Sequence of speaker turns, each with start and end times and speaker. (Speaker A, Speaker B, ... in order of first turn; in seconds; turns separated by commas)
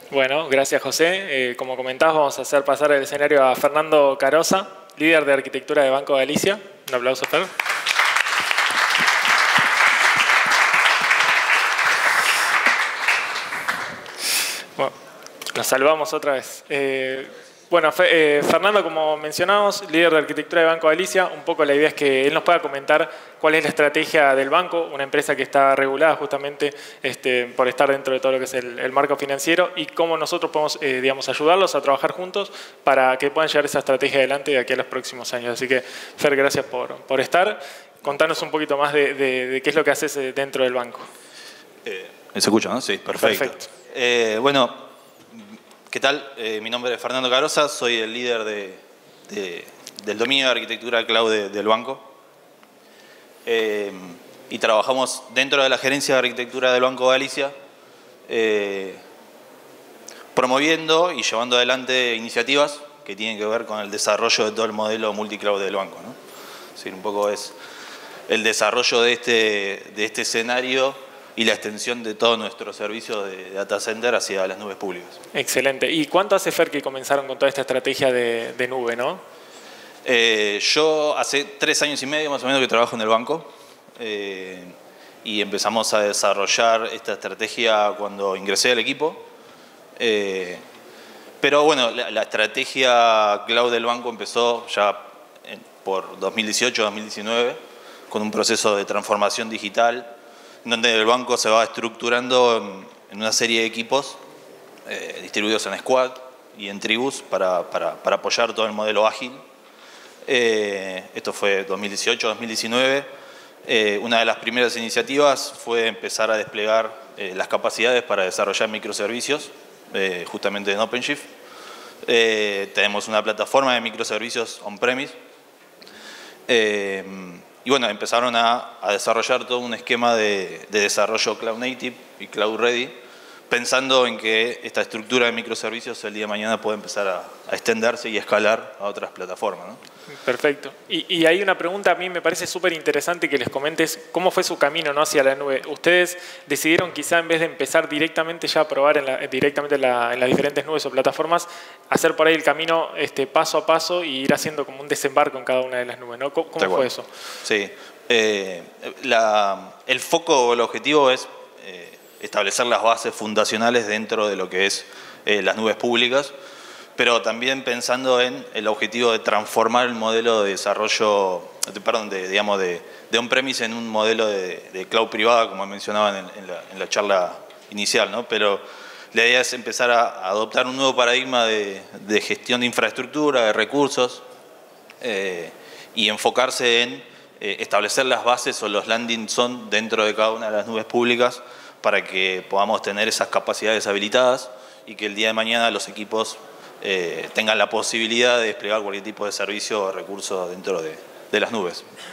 Speaker A: 0.1-7.5, Speaker A: 15.5-41.1, Speaker B: 38.0-38.5, Speaker B: 41.9-52.1, Speaker A: 43.2-43.7, Speaker B: 53.5-57.5, Speaker B: 58.3-59.0, Speaker B: 60.3-66.2, Speaker B: 66.8-67.5, Speaker B: 68.3-75.2, Speaker A: 75.3-79.2, Speaker B: 80.0-89.3, Speaker B: 90.0-90.6, Speaker B: 91.4-97.6, Speaker B: 98.1-100.1, Speaker B: 100.7-104.2, Speaker B: 104.9-109.4, Speaker B: 110.2-113.1, Speaker B: 113.7-121.3, Speaker B: 122.0-125.2, Speaker B: 126.5-132.9, Speaker B: 133.5-139.8, Speaker A: 140.2-157.1, Speaker B: 156.6-156.9, Speaker B: 157.4-166.3, Speaker B: 167.0-184.2, Speaker B: 185.0-201.8